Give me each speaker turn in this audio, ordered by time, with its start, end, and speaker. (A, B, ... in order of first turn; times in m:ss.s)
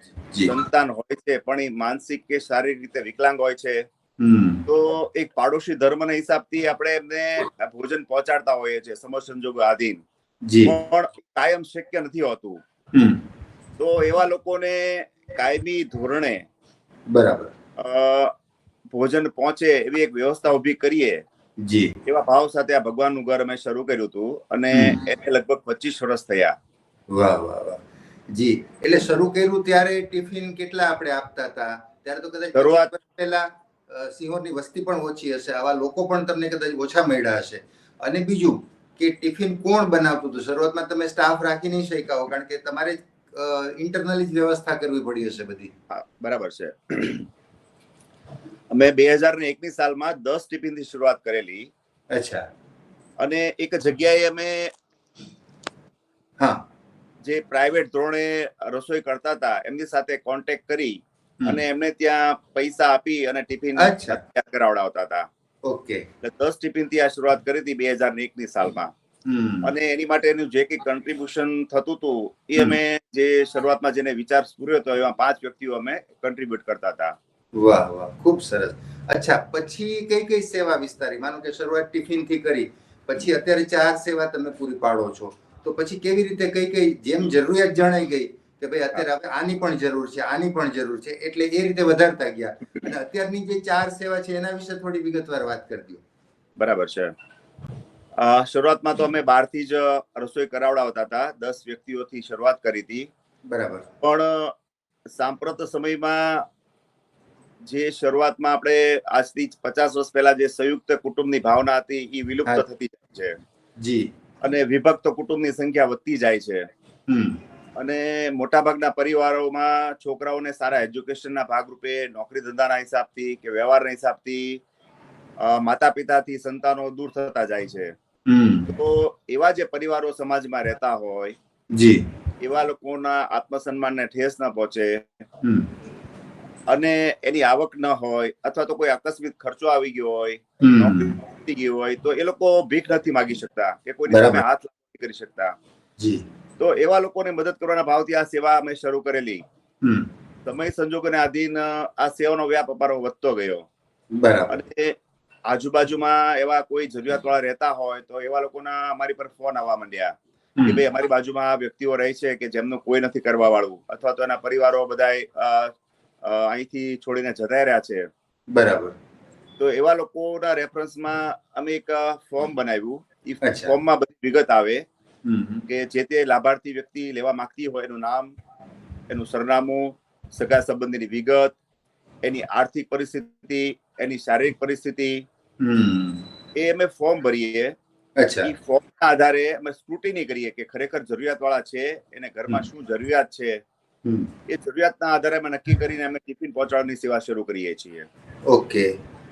0:00.4-0:03.8 A
0:04.2-0:04.6 B
0:04.7-0:10.0 A
0:10.4-0:10.7 B
0:10.6-0:12.6 A
0:13.8-0:16.4 A
0:17.1-0:17.5 B
0:17.8-0:18.3 A
0:18.9-0:21.2 A
0:21.6-0:21.9 B
0:22.0-0:26.5 A
0:24.7-0:25.0 B
0:27.1-0:27.8 B
0:28.3-0:45.7 B
0:32.5-0:32.9 A
0:45.9-0:47.3 A
0:48.7-0:51.7 A
0:52.1-0:52.4 B
0:53.2-0:54.7 A
0:57.2-1:05.2 A
1:03.8-1:04.2 B
1:05.6-1:06.0 B
1:06.2-1:08.9 A
1:09.3-1:09.7 B
1:09.6-1:17.1 A
1:17.5-1:36.0 B
1:36.6-1:37.1 A
1:38.2-1:43.1 A
1:43.5-1:43.8 B
1:44.0-1:44.5 A
1:45.2-1:46.4 A
1:47.7-1:53.3 A
1:53.8-1:54.1 B
1:54.4-1:56.6 A
1:57.1-1:57.4 B
1:57.8-2:04.6 A
2:05.4-2:07.9 A
2:08.3-2:08.7 B
2:08.7-2:11.3 A
2:11.7-2:12.0 B
2:12.4-2:15.2 A
2:16.7-2:25.5 A
2:20.6-2:21.2 B
2:24.1-2:24.4 B
2:26.6-2:29.4 A
2:30.4-2:33.7 A
2:34.2-2:34.6 B
2:34.5-2:35.0 A
2:35.5-2:40.1 A
2:40.6-2:45.7 A
2:46.2-2:48.0 A
2:48.5-2:48.9 B
2:49.6-2:54.8 A
2:53.4-2:53.7 B
2:55.2-2:55.6 B
2:55.7-2:58.3 A
2:59.1-3:01.6 A
3:02.2-3:05.2 A
3:05.6-3:06.2 B
3:06.6-3:07.7 A
3:08.2-3:08.5 B
3:08.4-3:13.6 A
3:14.5-3:18.1 A
3:18.5-3:18.9 B